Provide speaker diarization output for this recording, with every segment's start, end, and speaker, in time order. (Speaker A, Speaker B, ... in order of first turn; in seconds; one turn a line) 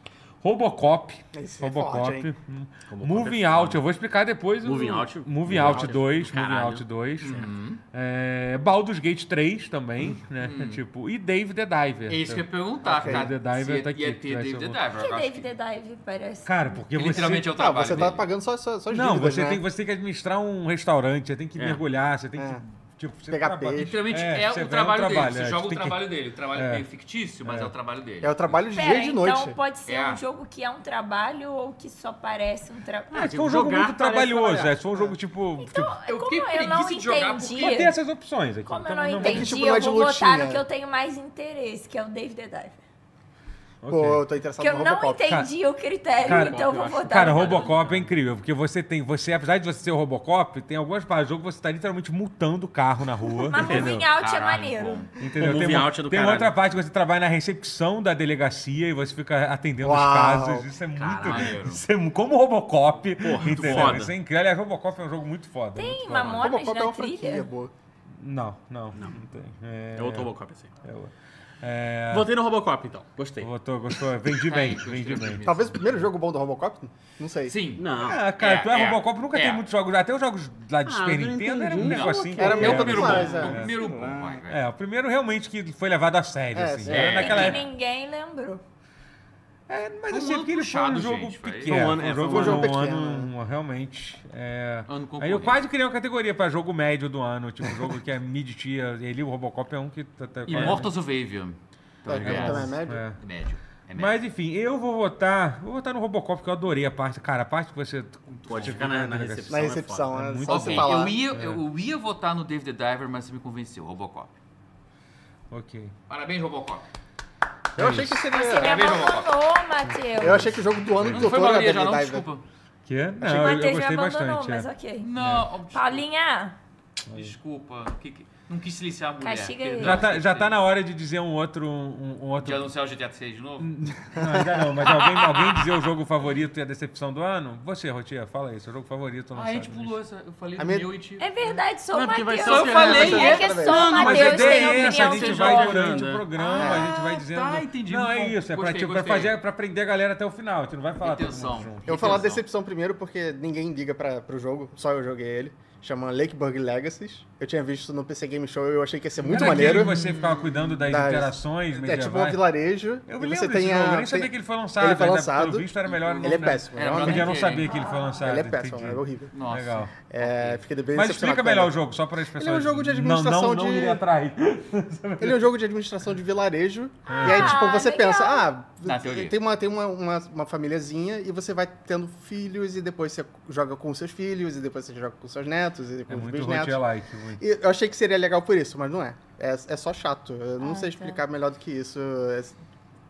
Speaker A: 0.4-12.5
Speaker B: 1.3-2.3
Speaker C: 2.9-3.8
Speaker C: 4.6-6.8
Speaker B: 5.5-5.9
Speaker D: 7.2-7.8
Speaker D: 10.4-10.8
Speaker D: 12.1-15.5
Speaker B: 12.8-13.3
Speaker A: 13.0-14.8
Speaker E: 14.9-16.6
Speaker A: 16.4-17.6
Speaker D: 16.9-18.3
Speaker B: 17.5-19.6
Speaker A: 18.9-26.8
Speaker B: 22.4-22.6
Speaker B: 23.3-23.9
Speaker D: 23.7-28.6
Speaker A: 27.4-27.7
Speaker B: 28.2-29.6
Speaker E: 28.7-33.3
Speaker D: 29.9-30.2
Speaker C: 33.1-34.7
Speaker A: 33.1-36.0
Speaker B: 34.7-35.1
Speaker E: 35.6-37.9
Speaker D: 36.1-37.9
Speaker A: 37.6-39.5
Speaker E: 38.6-42.8
Speaker B: 39.2-40.6
Speaker A: 43.8-44.2
Speaker B: 43.9-45.4
Speaker E: 44.6-47.7
Speaker C: 46.2-48.1
Speaker A: 46.2-54.0
Speaker E: 53.4-55.0
Speaker C: 53.6-53.9
Speaker D: 53.7-55.1
Speaker A: 55.2-66.5
Speaker C: 55.4-56.5
Speaker B: 59.8-60.7
Speaker C: 61.0-61.5
Speaker D: 61.1-61.8
Speaker C: 63.2-64.1
Speaker D: 63.5-63.9
Speaker E: 65.7-67.5
Speaker C: 66.1-66.4
Speaker B: 66.3-67.7
Speaker A: 68.1-70.3
Speaker C: 68.9-69.2
Speaker C: 70.0-70.7
Speaker A: 70.8-72.3
Speaker C: 72.1-73.5
Speaker A: 73.4-75.4
Speaker D: 74.3-76.1
Speaker B: 75.4-77.6
Speaker D: 77.5-79.6
Speaker C: 77.8-78.2
Speaker A: 78.0-83.8
Speaker C: 80.8-84.2
Speaker D: 81.7-84.6
Speaker B: 82.4-83.9
Speaker A: 84.5-87.6
Speaker B: 86.5-87.5
Speaker D: 86.9-87.6
Speaker C: 86.9-87.2
Speaker E: 87.2-88.6
Speaker A: 89.7-100.9
Speaker D: 90.1-91.9
Speaker C: 91.7-92.7
Speaker B: 91.7-93.3
Speaker D: 94.9-95.6
Speaker D: 100.5-104.2
Speaker B: 100.5-100.8
Speaker B: 102.0-103.0
Speaker A: 102.2-103.2
Speaker A: 103.9-111.6
Speaker D: 108.3-108.9
Speaker C: 108.5-110.1
Speaker B: 109.5-111.2
Speaker D: 110.5-114.3
Speaker A: 115.5-115.9
Speaker D: 116.1-116.8
Speaker A: 117.8-118.2
Speaker B: 117.8-118.9
Speaker E: 118.3-120.5
Speaker D: 118.5-119.3
Speaker A: 119.9-121.4
Speaker B: 120.2-122.3
Speaker D: 121.1-122.4
Speaker A: 122.9-125.5
Speaker E: 123.2-125.1
Speaker D: 125.0-126.0
Speaker E: 125.7-126.6
Speaker A: 127.1-127.3
Speaker D: 127.1-130.6
Speaker E: 129.2-130.0
Speaker A: 129.8-132.7
Speaker D: 132.4-133.7
Speaker A: 133.6-139.9
Speaker B: 134.2-134.9
Speaker D: 134.9-135.7
Speaker D: 139.3-141.3
Speaker B: 140.6-140.9
Speaker E: 141.2-145.8
Speaker C: 141.9-146.3
Speaker D: 142.4-143.6
Speaker B: 142.7-144.4
Speaker A: 143.9-152.2
Speaker D: 146.4-149.3
Speaker B: 146.6-146.9
Speaker D: 151.0-152.4
Speaker B: 151.9-159.9
Speaker A: 159.2-162.5
Speaker D: 159.2-160.7
Speaker B: 160.8-167.4
Speaker A: 163.1-169.9
Speaker D: 165.9-167.8
Speaker B: 168.2-169.3
Speaker D: 169.3-170.6
Speaker B: 170.1-171.7
Speaker A: 170.9-175.5
Speaker B: 172.3-174.0
Speaker B: 175.2-186.8
Speaker A: 177.1-177.6
Speaker E: 177.1-178.5
Speaker D: 178.8-179.4
Speaker A: 186.1-187.4
Speaker B: 187.4-192.6
Speaker E: 190.6-191.2